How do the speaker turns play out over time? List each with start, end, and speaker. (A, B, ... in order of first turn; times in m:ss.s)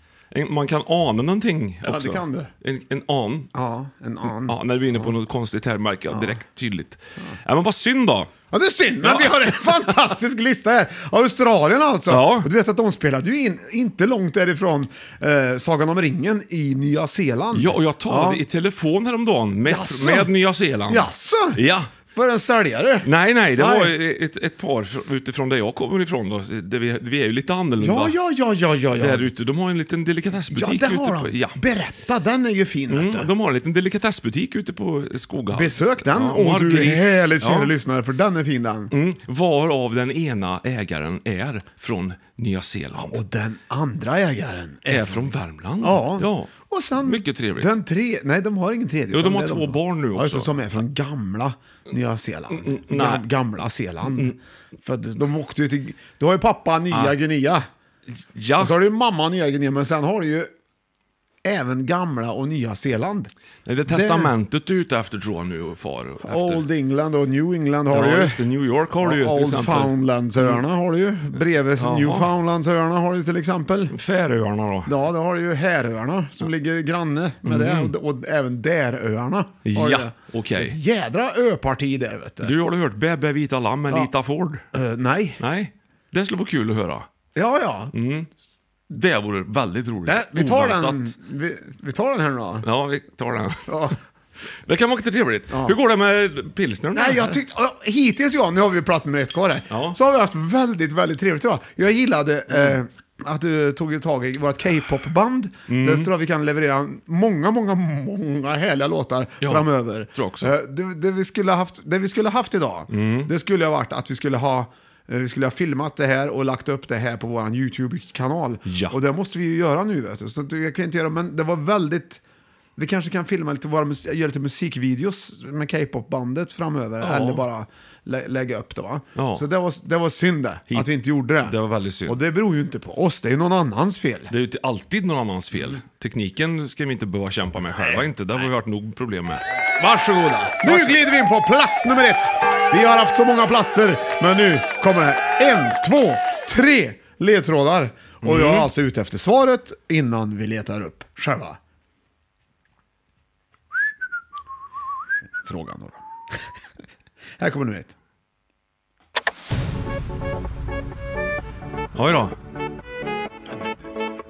0:00.3-0:03.5 A
0:01.8-0:02.5 B
0:03.5-0:05.1 B
0:04.3-0:08.3 A
0:06.1-0:06.4 B
0:08.5-0:18.4 B
0:09.0-0:09.9 A
0:12.1-0:12.5 A
0:17.5-0:21.9 A
0:19.6-0:20.3 B
0:20.9-0:21.6 B
0:22.1-0:24.0 B
0:23.0-0:28.1 A
0:27.8-0:29.3 B
0:29.0-0:31.6 A
0:30.5-0:33.3 B
0:32.9-0:37.7 A
0:35.5-0:38.9 B
0:38.9-0:43.2 A
0:43.0-0:45.3 B
0:44.9-0:47.7 A
0:45.8-0:57.7 B
0:49.1-0:50.5 A
0:52.5-0:53.3 A
0:54.0-0:54.4 A
0:56.9-0:57.2 A
0:58.2-0:58.8 A
0:58.6-1:00.5 B
1:01.4-1:03.3 B
1:03.7-1:06.6 A
1:03.9-1:04.3 B
1:06.2-1:08.4 B
1:07.9-1:10.6 A
1:09.0-1:14.0 B
1:11.8-1:12.3 A
1:13.9-1:14.9 A
1:14.9-1:22.5 B
1:17.5-1:17.9 A
1:19.6-1:20.8 A
1:22.4-1:24.6 A
1:24.7-1:25.4 B
1:25.4-1:27.1 A
1:27.4-1:28.0 B
1:27.9-1:28.3 A
1:28.9-1:31.1 A
1:30.1-1:32.7 B
1:32.6-1:33.7 A
1:33.7-1:34.0 B
1:34.7-1:37.4 A
1:35.5-1:35.8 B
1:36.9-2:02.2 B
1:39.7-1:40.0 A
1:45.7-1:46.1 A
1:49.4-1:50.5 A
1:52.9-1:53.3 A
1:58.7-1:59.0 A
2:02.8-2:14.3 B
2:07.0-2:07.4 A
2:09.2-2:09.4 A
2:11.4-2:12.2 A
2:14.3-2:19.4 A
2:19.8-2:31.6 B
2:20.6-2:21.0 A
2:28.2-2:28.7 A
2:35.4-2:36.5 B
2:37.4-2:37.9 B
2:41.9-2:42.4 A